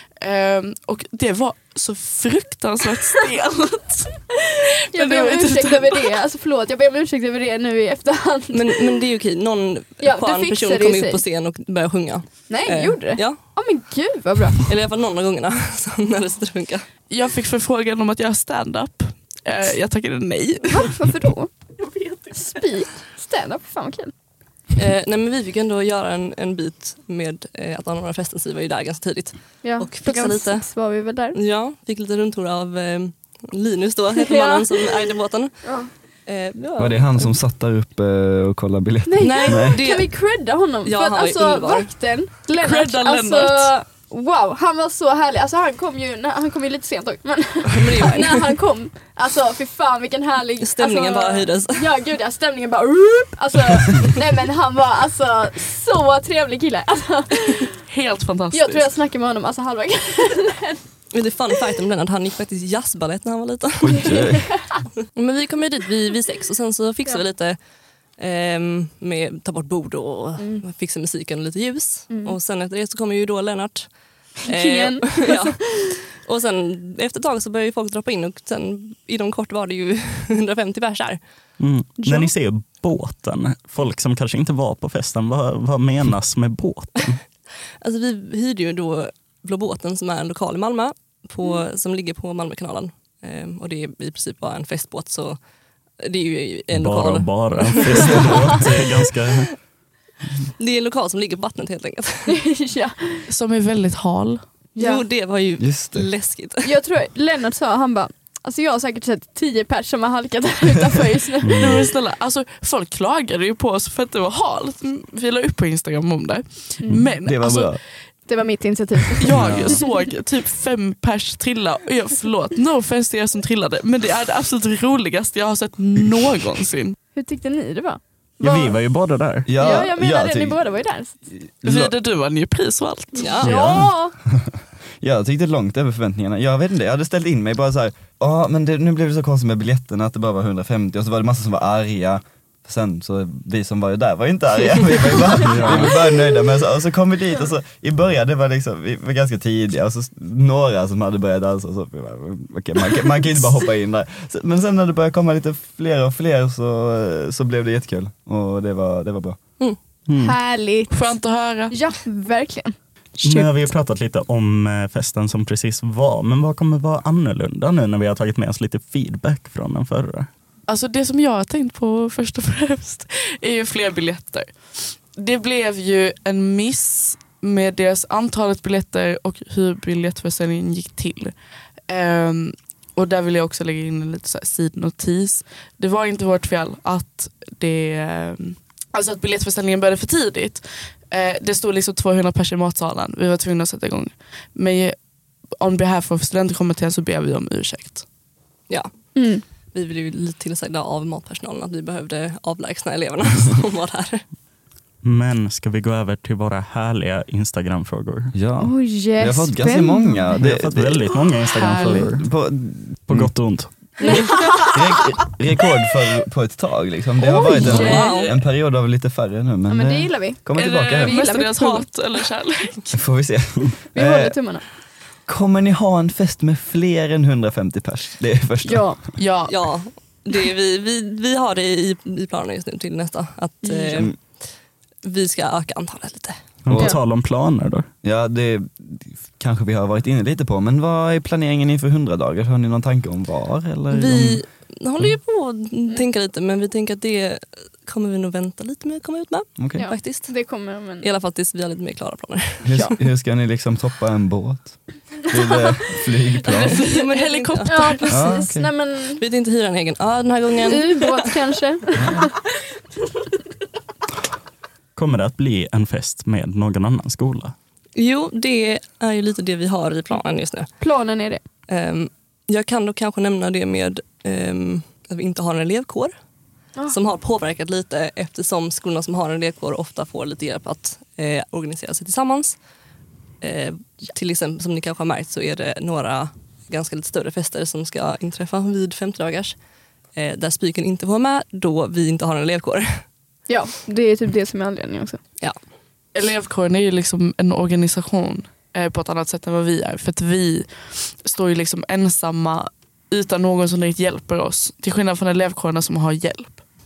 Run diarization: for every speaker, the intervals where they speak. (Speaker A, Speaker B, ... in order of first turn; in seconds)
Speaker A: 0.2-4.3, 4.9-6.1, 17.1-20.9, 21.8-22.3, 42.6-43.7, 57.9-58.9, 103.3-104.4, 111.6-117.8, 119.2-127.0, 131.6-133.4, 160.9-161.8, 170.7-174.5, 175.1-181.4, 181.9-195.0, 195.6-198.0, 211.6-212.1, 217.6-218.4, 220.6-223.0, 229.2-229.6, 256.5-258.3, 296.1-306.6
Speaker B: 4.3-8.9, 10.0-11.2, 12.5-14.7, 20.7-21.5, 22.3-24.1, 29.6-31.4, 34.2-34.9, 35.6-35.9, 39.0-57.8, 58.5-60.8, 64.3-64.8, 72.1-72.3, 74.5-75.9, 82.0-82.3, 98.3-98.5, 102.3-103.3, 104.8-105.0, 106.6-111.8, 118.3-119.8, 127.1-128.8, 129.6-131.2, 133.3-134.2, 160.2-161.1, 161.7-163.7, 199.2-199.4, 208.6-210.4, 214.0-214.8, 217.2-218.3, 219.7-221.9, 223.9-224.6, 228.7-229.0, 233.6-234.1, 249.8-251.1, 257.7-259.2, 260.6-262.4, 270.8-271.4, 293.5-295.2
Speaker C: 8.5-13.4, 14.6-16.9, 24.8-30.7, 31.3-35.6, 36.3-37.3, 39.2-40.1, 40.9-41.9, 47.7-48.4, 50.6-51.9, 61.1-64.2, 65.1-67.6, 68.2-73.9, 74.4-81.2, 87.8-95.4, 96.0-98.9, 100.6-102.3, 104.8-106.7, 133.2-133.5, 198.7-199.1, 199.7-204.2, 217.6-218.3, 229.5-234.4, 235.0-236.4, 243.9-250.3, 251.0-252.8, 256.4-257.9, 259.2-261.4, 268.0-270.7, 271.7-276.1, 276.9-282.6, 283.4-289.6, 290.1-293.0
Speaker D: 36.8-39.8, 63.8-64.5, 105.6-106.1, 116.9-117.8, 119.3-119.8, 129.5-130.6, 131.3-131.9, 133.5-159.4, 208.3-213.3, 214.7-221.3, 222.9-224.4, 225.3-228.9, 236.7-237.0, 238.0-244.4, 249.6-249.9, 252.6-256.9, 258.1-258.7, 261.9-262.3
Speaker E: 81.6-87.2, 96.7-99.5, 111.4-111.9, 119.3-119.8, 128.4-129.6, 133.4-133.8, 145.4-145.9, 160.1-160.4, 163.2-170.3, 205.0-208.3, 210.4-212.3, 213.1-213.7, 236.6-237.9, 265.0-267.6